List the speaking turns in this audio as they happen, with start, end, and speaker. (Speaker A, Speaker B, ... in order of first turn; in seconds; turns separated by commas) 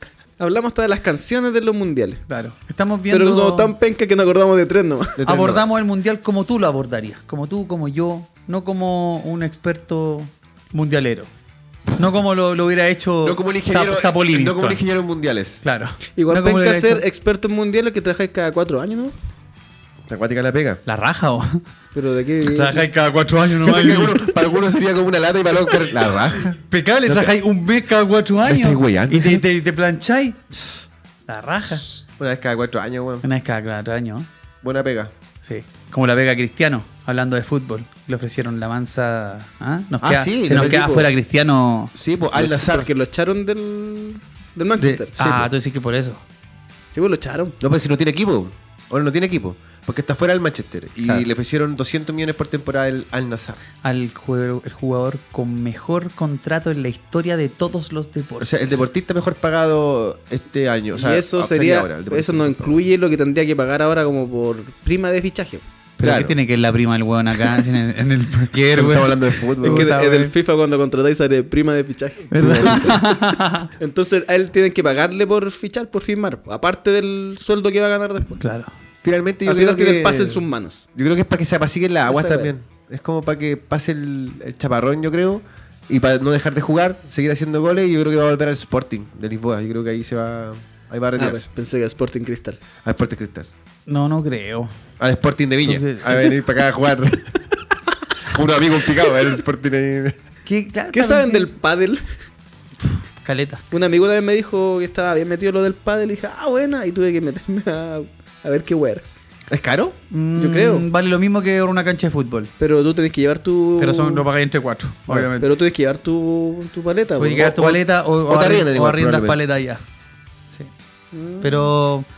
Speaker A: 0.4-2.2, Speaker B: 2.3-3.7, Speaker A: 3.1-5.2, Speaker C: 5.2-5.6, Speaker B: 5.2-11.3, Speaker B: 11.9-14.8, Speaker C: 13.2-15.6, Speaker B: 15.6-17.0, Speaker A: 16.1-19.1, Speaker C: 20.1-20.8, Speaker B: 20.9-21.6, Speaker A: 21.9-22.9, Speaker B: 22.4-24.3, Speaker C: 23.5-27.3, Speaker B: 26.7-31.9, Speaker C: 28.4-29.4, Speaker C: 32.2-33.2, Speaker B: 33.2-34.3, Speaker C: 34.6-35.1, Speaker B: 35.4-41.9, Speaker C: 40.0-41.0, Speaker A: 40.5-41.1, Speaker C: 41.9-42.9, Speaker A: 42.4-45.3, Speaker B: 44.8-46.2, Speaker C: 45.2-45.5, Speaker A: 46.9-47.6, Speaker C: 47.6-53.6, Speaker B: 53.8-58.7, Speaker C: 58.4-62.8, Speaker A: 60.9-65.6, Speaker B: 66.0-70.3, Speaker C: 66.0-66.3, Speaker C: 68.5-69.9, Speaker A: 69.6-73.0, Speaker B: 72.3-73.7, Speaker C: 72.4-73.0, Speaker A: 73.8-78.4, Speaker B: 78.4-78.7, Speaker C: 79.0-80.4, Speaker A: 79.5-80.8, Speaker C: 80.9-91.5, Speaker A: 82.1-82.5, Speaker A: 91.2-92.6, Speaker C: 92.8-93.5, Speaker B: 93.9-94.7, Speaker C: 95.0-97.3, Speaker B: 95.6-96.3, Speaker C: 98.3-100.1, Speaker B: 100.5-101.5, Speaker A: 100.9-102.0, Speaker B: 103.2-103.6, Speaker A: 103.7-109.0, Speaker C: 109.5-110.0, Speaker B: 110.1-112.5, Speaker A: 110.4-110.8, Speaker A: 112.6-114.2, Speaker B: 113.8-115.5, Speaker A: 115.4-117.5, Speaker B: 117.2-119.8, Speaker C: 117.3-119.4, Speaker A: 121.1-121.7, Speaker B: 121.4-122.1